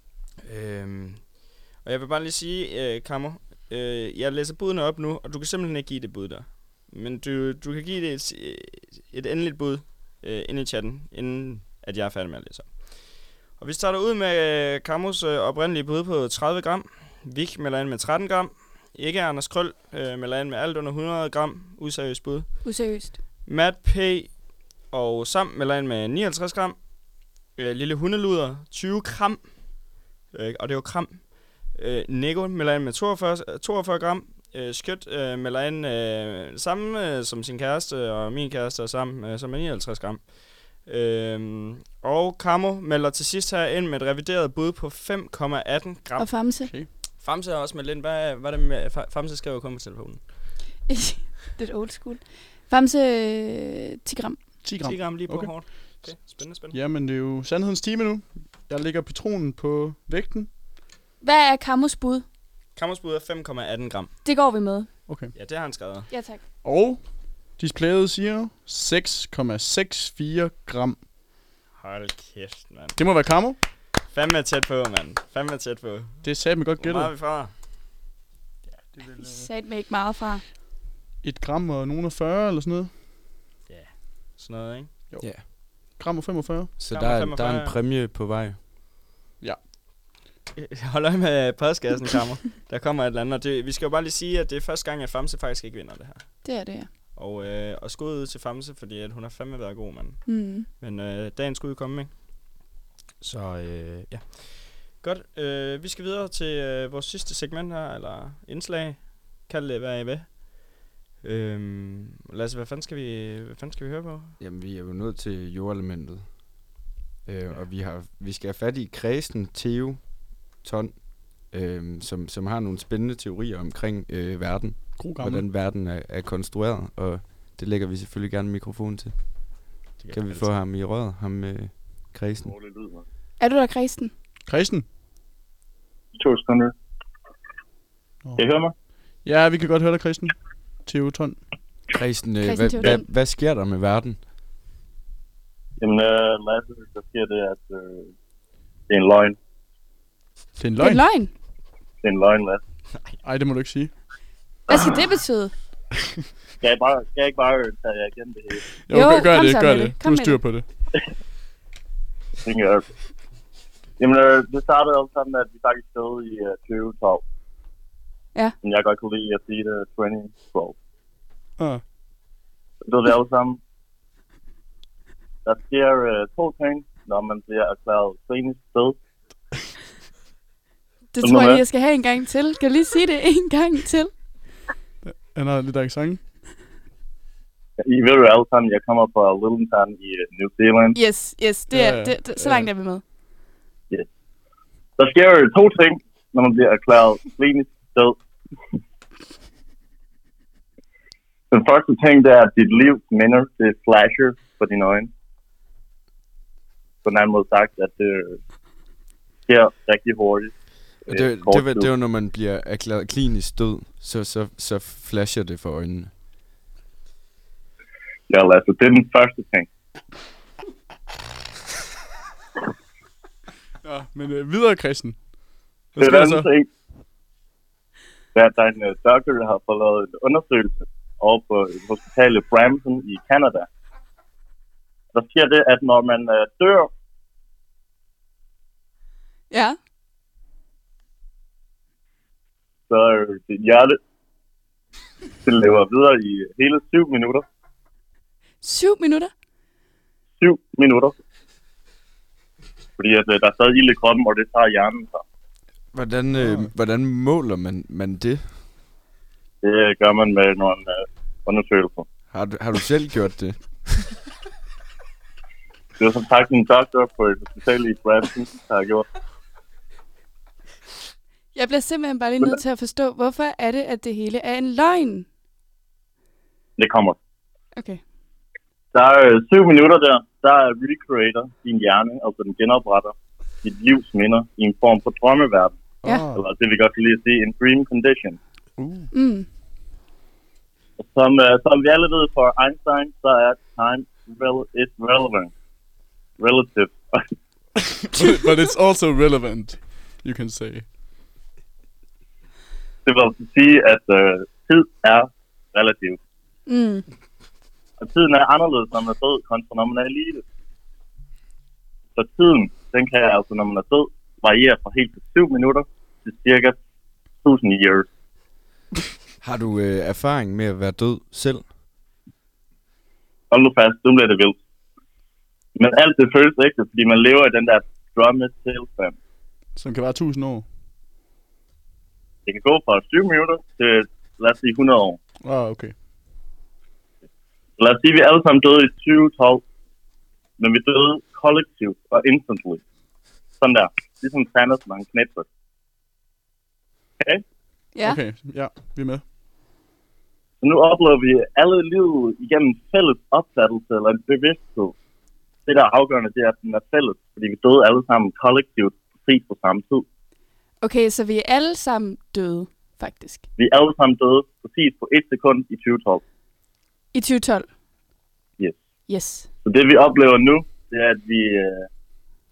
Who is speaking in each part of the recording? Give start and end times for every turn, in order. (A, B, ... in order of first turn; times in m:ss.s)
0:00.4-0:22.9 A
0:22.6-0:23.2 B
0:23.5-0:50.3 A
0:46.2-0:46.7 B
0:46.6-0:46.9 C
0:50.9-0:54.5 B
0:54.6-0:55.6 C
0:54.8-0:56.8 A
0:56.7-1:00.5 C
1:01.2-1:02.2 B
1:02.8-1:04.2 A
1:04.2-1:04.9 B
1:05.1-1:05.3 C
1:05.3-1:06.1 A
1:06.1-1:06.4 B
1:06.6-1:11.0 C
1:11.8-1:17.5 A
1:13.0-1:13.6 C
1:16.2-1:17.1 C
1:18.7-1:19.5 C
1:19.2-1:20.4 B
1:21.2-1:23.0 C
1:23.7-1:24.9 A
1:25.1-1:26.8 C
1:26.8-1:28.6 D
1:26.9-1:27.8 A
1:30.6-1:36.6 A
1:36.4-1:36.9 B
1:37.1-1:42.6 A
1:40.3-1:40.7 B
1:43.2-1:54.4 A
1:54.4-1:56.7 D
1:57.3-2:12.5 D
2:05.0-2:05.5 C
2:10.0-2:10.5 A
2:12.4-2:13.0 E
2:13.4-2:14.1 B
2:14.5-2:14.9 C
2:16.2-2:16.7 E
2:18.4-2:18.8 E
2:19.1-2:21.4 C
2:21.9-2:24.2 D
2:22.4-2:23.0 B
2:25.8-2:28.1 E
2:28.9-2:29.4 E
2:30.6-2:31.1 C
2:30.8-2:31.3 B
2:32.0-2:32.6 E
2:33.2-2:34.0 C
2:34.7-2:35.5 B
2:36.6-2:38.6 E
2:38.8-2:40.7 C
2:38.9-2:40.4 B
2:42.4-2:42.9 E
2:44.0-2:47.2 E
2:48.6-2:50.8 E
2:51.6-2:51.8 C
2:52.9-2:53.6 E
2:55.4-2:59.0 E
3:01.1-3:04.2 B
3:01.2-3:01.6 E
3:05.0-3:06.3 C
3:07.9-3:11.0 E
3:10.9-3:13.0 B
3:11.7-3:12.7 C
3:15.0-3:18.2 E
3:21.5-3:25.1 E
3:27.0-3:28.4 E
3:29.5-3:30.5 E
3:31.1-3:36.1 D
3:31.1-3:31.9 E
3:38.3-3:39.7 E
3:43.8-3:46.5 C
3:46.0-3:46.7 E
3:48.4-3:53.7 E
3:55.1-3:56.9 E
3:59.5-3:59.8 B
4:02.9-4:04.0 E
4:05.4-4:07.4 E
4:08.6-4:09.3 B
4:10.4-4:11.1 E
4:13.0-4:15.2 E
4:15.9-4:18.6 D
4:16.4-4:16.7 C
4:19.6-4:22.1 E
4:22.3-4:24.1 D
4:26.0-4:29.1 E
4:31.6-4:35.3 B
4:36.8-4:37.2 E
4:37.8-4:38.0 B
4:38.9-4:48.4 E
4:46.0-4:46.4 C
4:48.8-4:49.1 C
4:49.1-4:49.5 B
4:51.0-4:55.5 E
4:56.4-4:57.2 E
4:58.1-5:00.9 C
5:03.1-5:06.2 E
5:06.7-5:07.0 B
5:08.0-5:10.4 E
5:12.2-5:16.8 E
5:17.4-5:18.1 E
5:19.4-5:21.7 D
5:23.5-5:24.6 E
5:25.8-5:29.2 E
5:29.8-5:30.7 C
5:32.5-5:35.2 E
5:35.4-5:36.0 C
5:37.8-5:39.6 E
5:40.6-5:42.8 E
5:43.6-5:45.5 E
5:48.0-5:48.2 B
5:48.0-5:49.2 C
5:50.6-5:55.0 E
5:55.7-6:00.0 E
6:00.8-6:03.4 B
6:03.6-6:06.2 E
6:07.1-6:07.7 B
6:09.1-6:09.5 B
6:09.6-6:11.9 E